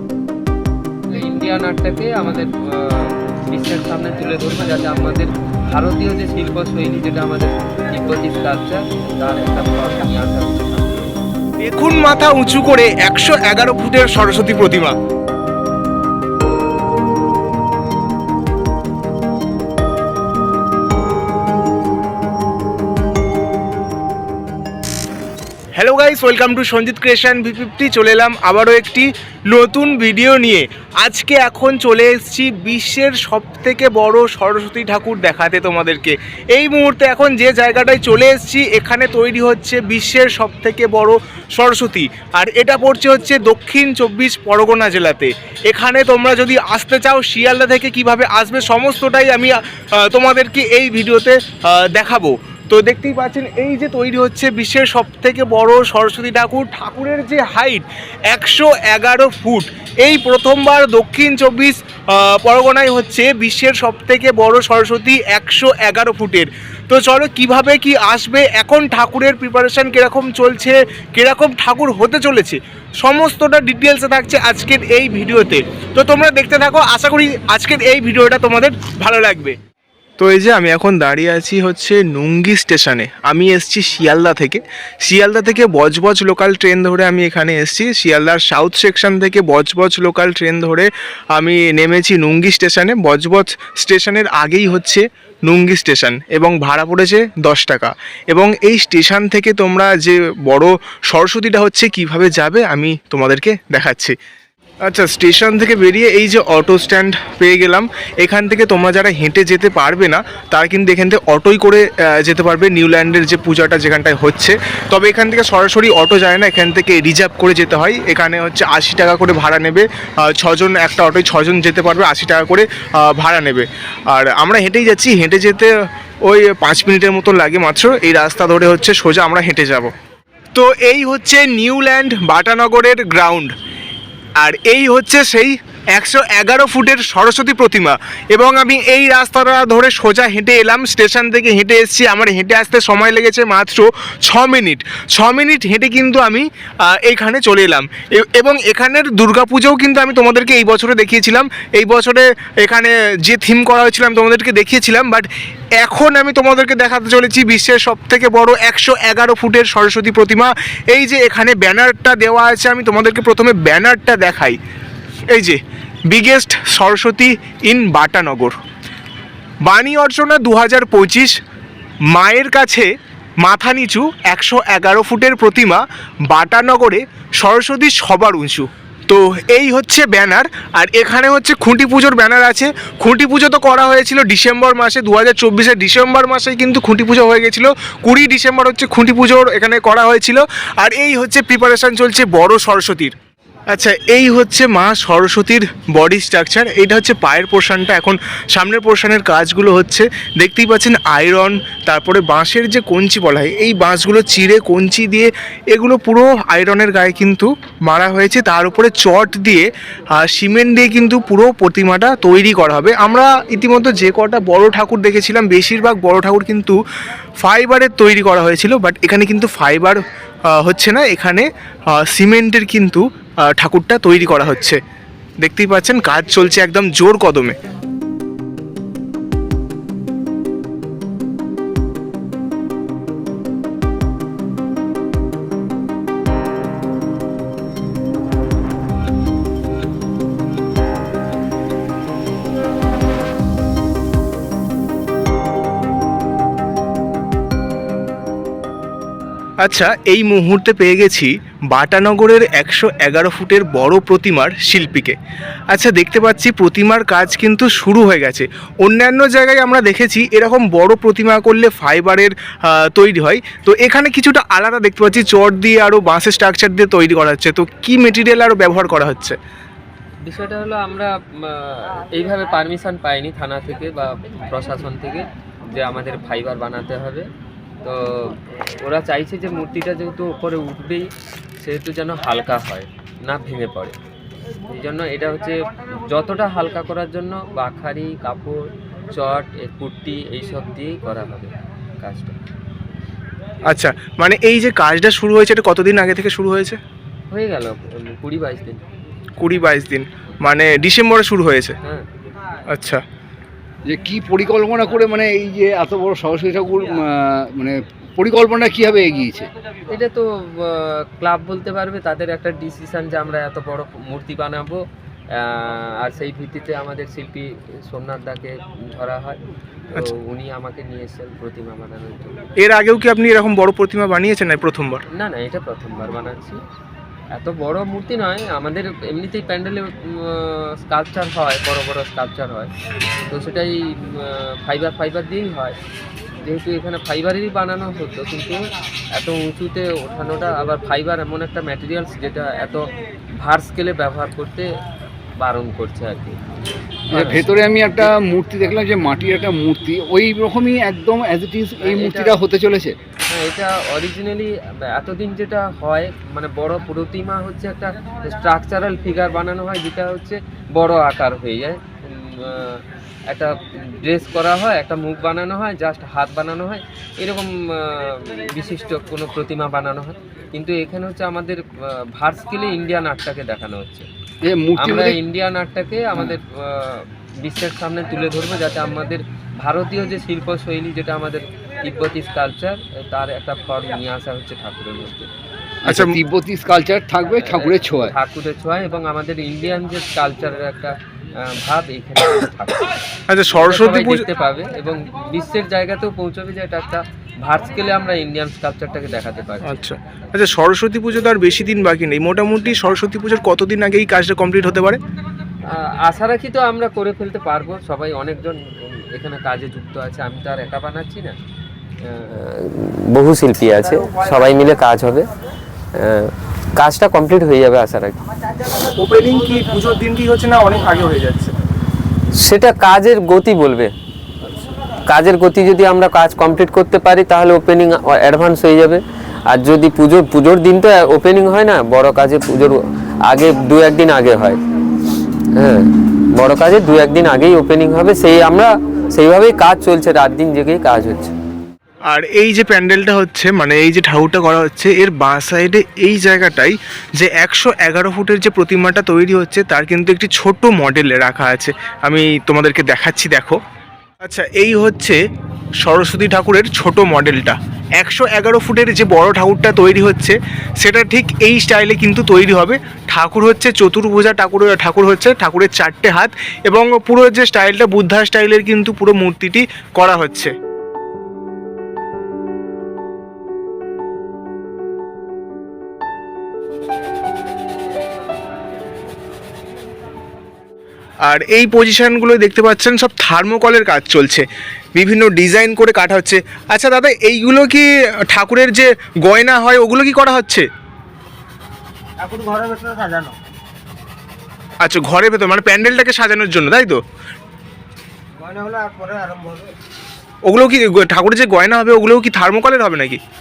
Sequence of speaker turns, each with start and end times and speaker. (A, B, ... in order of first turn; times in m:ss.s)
0:01.1-0:11.2 A
0:11.6-0:14.9 B
0:25.8-1:19.6 B
1:20.2-1:44.2 B
1:44.8-2:05.7 B
2:06.2-2:09.9 B
2:10.5-2:13.5 B
2:14.4-2:44.6 B
2:45.3-2:48.6 B
2:49.6-2:51.4 B
2:52.1-2:52.9 B
2:53.4-3:13.1 B
3:13.7-3:36.8 B
3:37.4-3:40.0 B
3:40.5-3:44.8 B
3:45.4-3:47.5 B
4:09.6-4:15.2 B
4:15.7-4:29.4 B
4:30.2-4:37.3 A
4:37.8-4:41.1 A
4:41.6-4:44.0 A
4:44.7-4:48.6 A
4:49.2-4:52.4 A
4:53.7-4:56.8 B
4:57.3-4:58.8 A
4:59.4-5:01.8 B
5:02.7-5:03.0 B
5:03.9-5:09.5 C
5:09.9-5:14.8 A
5:15.3-5:19.4 A
5:19.9-5:22.4 A
5:22.6-5:25.0 B
5:25.1-5:26.6 A
5:27.3-5:32.7 A
5:33.2-5:35.8 A
5:36.4-5:42.9 A
5:43.4-5:44.7 A
5:45.4-5:46.4 A
5:47.1-5:48.1 A
5:47.1-5:52.9 C
5:51.8-5:52.4 A
5:53.3-6:14.1 A
6:14.4-6:15.2 C
6:14.8-6:25.3 A
6:25.8-6:28.1 C
6:25.9-6:26.2 B
6:27.4-6:33.0 A
6:33.3-6:34.2 B
6:33.5-6:39.8 A
6:39.6-6:45.0 B
6:45.7-6:48.6 A
6:49.1-6:51.3 A
6:52.0-6:55.2 A
6:56.0-6:58.2 A
6:58.7-7:01.5 B
7:02.4-7:03.9 A
7:05.1-7:14.6 A
7:15.6-7:21.3 A
7:22.1-7:33.6 B
7:34.2-7:35.2 B
7:35.8-7:50.5 B
8:01.2-8:10.7 B
8:12.2-8:13.3 D
8:14.8-8:17.0 B
8:18.4-8:19.7 D
8:20.5-8:23.2 B